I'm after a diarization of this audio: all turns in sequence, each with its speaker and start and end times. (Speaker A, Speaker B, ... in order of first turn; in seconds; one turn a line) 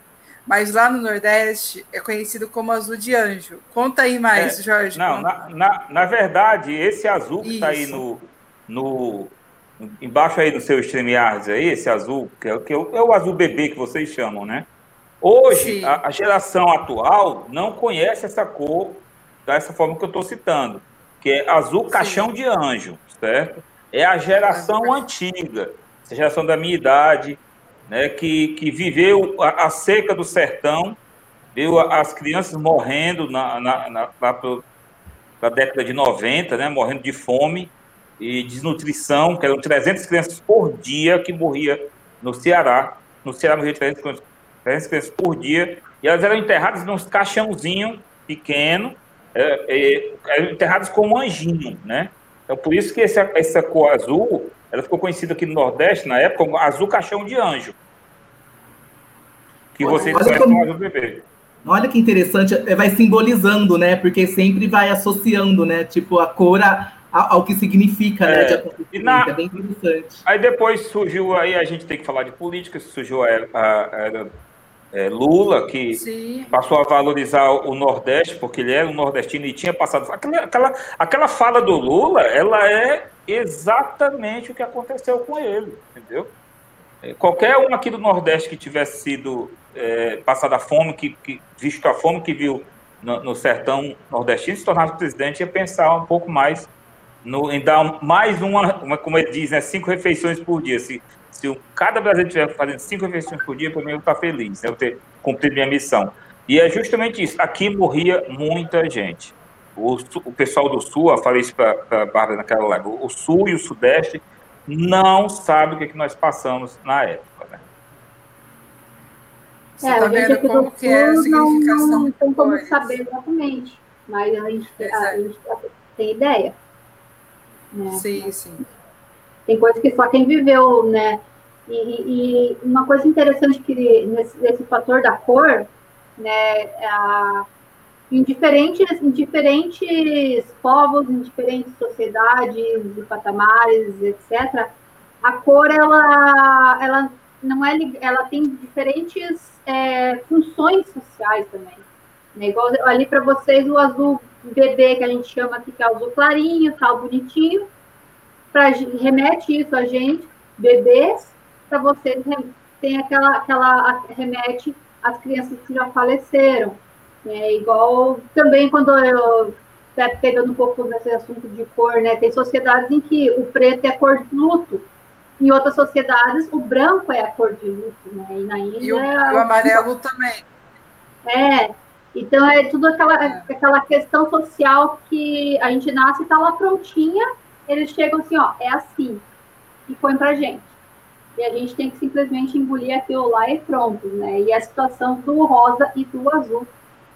Speaker A: 0.5-5.3
Speaker B: 4.3-14.7
Speaker A: 7.4-8.0
Speaker B: 15.2-31.0
Speaker A: 15.5-16.0
Speaker A: 21.9-22.3
Speaker A: 24.5-25.0
Speaker B: 31.6-34.6
Speaker B: 35.4-57.8
Speaker B: 59.8-61.3
Speaker A: 59.8-60.4
Speaker C: 59.9-60.7
Speaker C: 61.6-70.2
Speaker B: 68.2-69.3
Speaker B: 70.3-74.3
Speaker B: 74.9-86.3
Speaker A: 75.9-76.5
Speaker B: 87.0-96.7
Speaker B: 97.2-117.6
Speaker A: 119.8-123.0
Speaker D: 119.8-126.6
Speaker A: 124.8-125.2
Speaker D: 127.7-128.4
Speaker A: 127.9-128.6
Speaker D: 129.5-137.5
Speaker D: 138.1-157.7
Speaker D: 158.5-174.9
Speaker D: 175.4-179.9
Speaker A: 178.8-180.4
Speaker D: 181.2-189.2
Speaker D: 189.9-190.7
Speaker D: 191.4-196.7